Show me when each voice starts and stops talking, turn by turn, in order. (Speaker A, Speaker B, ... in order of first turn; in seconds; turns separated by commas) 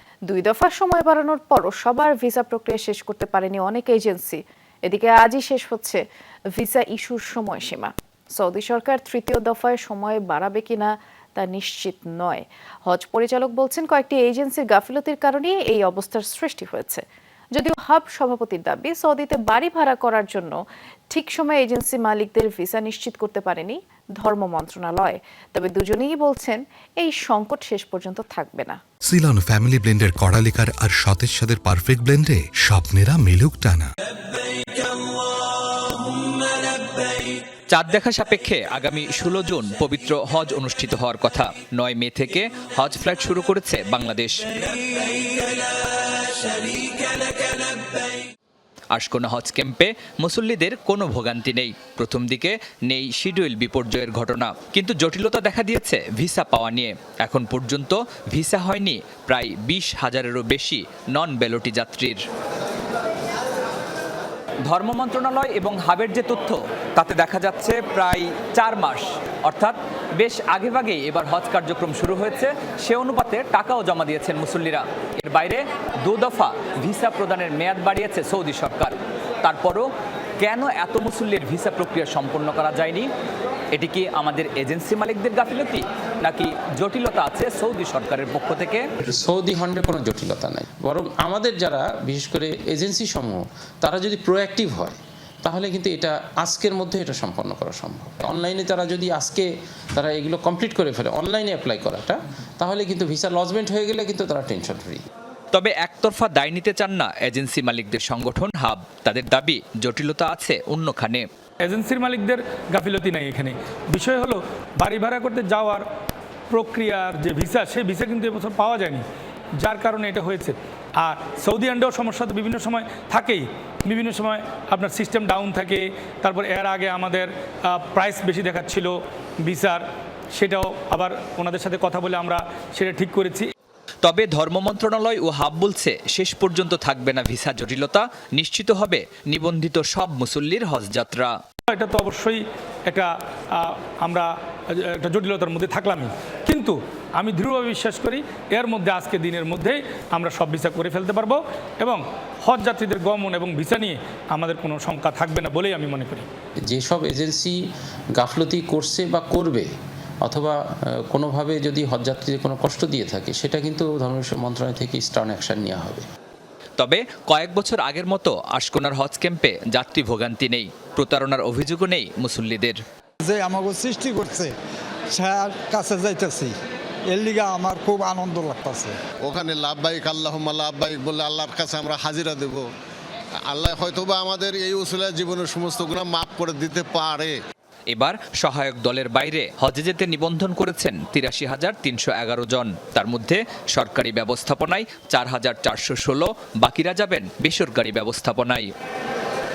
Speaker A: 0.3-6.0, Speaker A: 6.5-17.0, Speaker A: 17.6-20.6, Speaker A: 21.1-28.8, Speaker B: 29.1-33.9, Speaker C: 37.7-44.5, Speaker C: 48.9-62.2, Speaker C: 64.7-79.9, Speaker C: 80.4-83.1, Speaker C: 83.7-88.9, Speaker D: 89.1-105.0, Speaker C: 105.5-111.2, Speaker E: 111.6-115.8, Speaker E: 116.5-119.0, Speaker E: 119.6-133.5, Speaker C: 134.0-141.3, Speaker E: 141.7-156.3, Speaker D: 156.7-157.6, Speaker D: 158.2-159.7, Speaker D: 160.2-166.0, Speaker C: 166.8-172.8, Speaker F: 173.2-174.5, Speaker F: 175.1-176.5, Speaker F: 177.1-178.9, Speaker G: 179.2-182.7, Speaker G: 183.5-187.4, Speaker C: 187.9-198.7